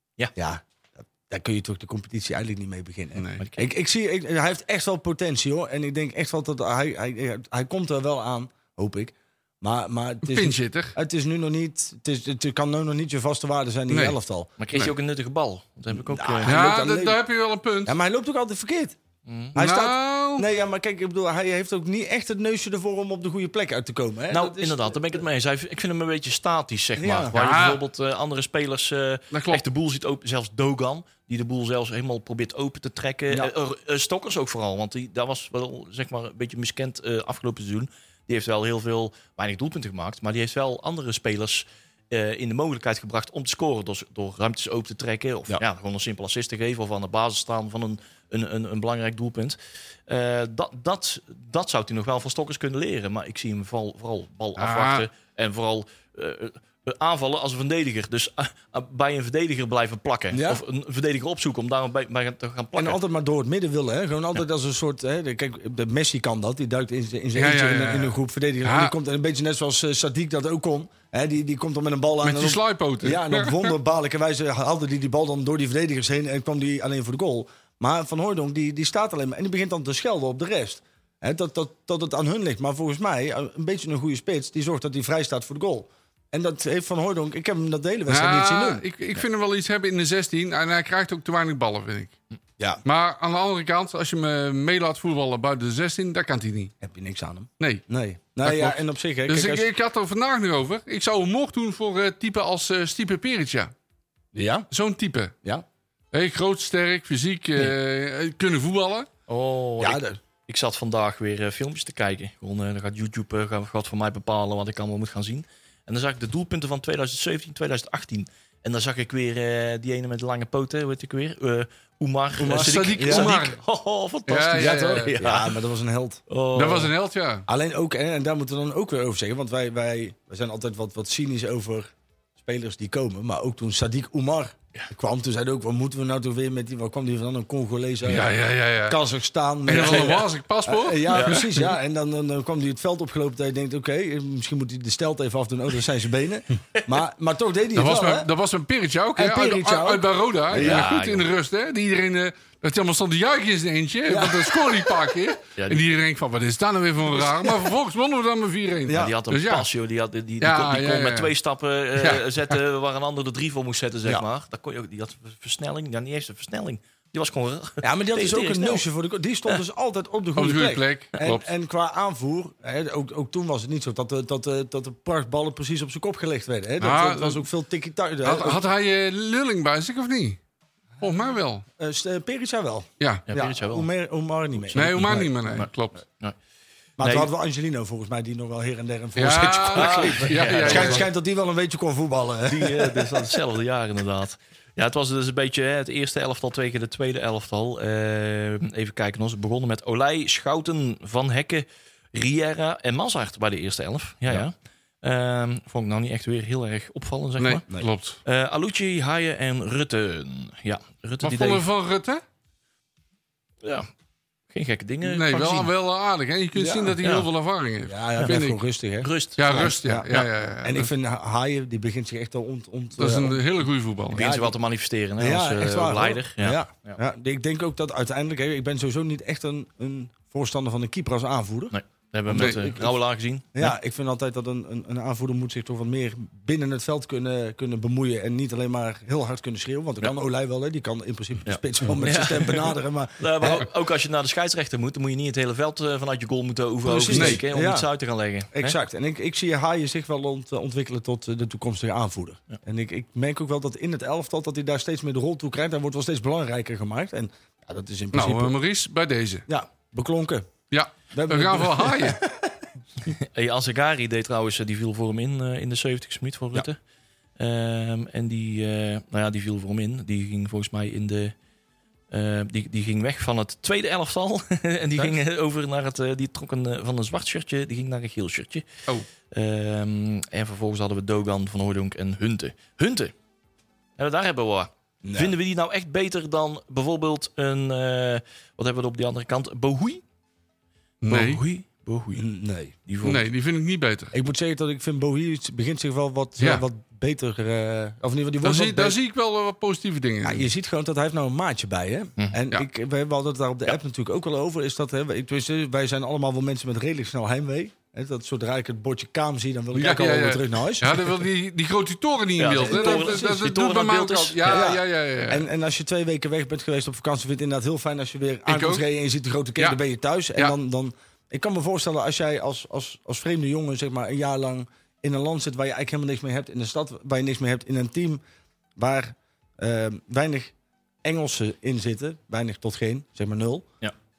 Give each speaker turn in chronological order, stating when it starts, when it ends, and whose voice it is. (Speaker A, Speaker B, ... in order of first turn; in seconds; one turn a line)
Speaker A: 0.4-14.5
Speaker B: 3.2-3.4
Speaker C: 3.4-3.7
Speaker B: 10.2-11.0
Speaker B: 13.9-14.2
Speaker C: 14.6-16.6
Speaker A: 15.9-17.2
Speaker B: 16.4-18.0
Speaker A: 17.9-19.0
Speaker C: 19.3-19.6
Speaker A: 19.6-25.2
Speaker B: 19.6-20.5
Speaker C: 24.3-63.0
Speaker A: 27.0-27.3
Speaker B: 27.3-27.8
Speaker B: 29.3-29.6
Speaker B: 54.6-55.1
Speaker A: 60.3-60.6
Speaker A: 62.8-88.8
Speaker B: 67.4-68.9
Speaker B: 72.2-73.8
Speaker B: 88.1-92.2
Speaker B: 92.8-96.7
Speaker A: 96.8-99.7
Speaker B: 98.4-103.7
Speaker A: 104.3-104.7
Speaker B: 104.7-105.3
Speaker B: 106.1-109.1
Speaker C: 109.3-125.6
Speaker A: 109.8-110.2
Speaker A: 122.4-123.3
Speaker B: 122.5-123.6
Speaker B: 124.3-125.1
Speaker A: 124.5-126.2
Speaker C: 126.3-126.9
Speaker B: 126.5-127.5
Speaker A: 127.5-138.3
Speaker B: 138.1-139.0
Speaker A: 138.9-148.3
Speaker B: 139.7-141.5
Speaker C: 141.1-141.4
Speaker B: 147.8-159.7
Speaker A: 149.2-150.9
Speaker C: 150.5-151.3
Speaker A: 154.1-154.8
Speaker C: 155.6-155.8
Speaker A: 158.9-159.2
Speaker C: 158.9-168.8
Speaker B: 160.4-161.3
Speaker B: 162.0-162.5
Speaker A: 167.8-178.6
Speaker B: 170.4-171.5
Speaker B: 176.8-177.4
Speaker B: 178.2-180.4
Speaker B: 181.0-181.6
Speaker A: 181.8-185.2
Speaker B: 183.0-183.3
Speaker C: 183.3-183.9
Speaker C: 184.6-186.4
Speaker B: 184.7-186.0
Speaker A: 187.0-193.2
Speaker C: 187.0-187.3
Speaker B: 189.2-191.1
Speaker C: 189.7-191.1
Speaker C: 192.5-207.6
Speaker B: 207.4-208.2
Speaker C: 208.2-211.7
Speaker B: 211.2-212.2
Speaker C: 213.6-213.9
Speaker C: 214.5-215.7
Speaker B: 215.1-218.6
Speaker A: 216.6-217.0
Speaker C: 217.0-217.3
Speaker A: 217.9-223.4
Speaker C: 219.0-219.7
Speaker B: 219.4-220.9
Speaker B: 223.0-224.3
Speaker C: 224.1-227.0
Speaker A: 224.1-224.6
Speaker A: 225.2-231.7
Speaker C: 231.7-233.7
Speaker A: 232.3-232.8
Speaker B: 232.4-232.8
Speaker A: 233.6-243.7
Speaker C: 241.5-248.8
Speaker A: 246.8-247.9
Speaker B: 247.1-247.4
Speaker A: 248.5-258.5
Speaker B: 258.1-259.4
Speaker A: 259.5-260.5
Speaker B: 260.7-262.2
Speaker A: 261.1-262.6
Speaker C: 263.1-266.8
Speaker C: 267.4-271.4
Speaker C: 272.1-278.7
Speaker C: 279.3-283.1
Speaker C: 284.0-290.0
Speaker A: 285.0-285.4
Speaker B: 291.0-291.4
Speaker C: 291.1-292.3
Speaker A: 292.2-292.8
Speaker C: 292.9-293.3
Speaker B: 293.0-294.1
Speaker A: 294.1-299.0
Speaker B: 296.4-296.6
Speaker B: 298.4-300.5
Speaker A: 300.2-311.2
Speaker B: 309.8-315.5
Speaker C: 312.4-314.7
Speaker A: 312.6-313.3
Speaker A: 314.5-328.2
Speaker B: 318.5-318.9
Speaker A: 328.8-333.7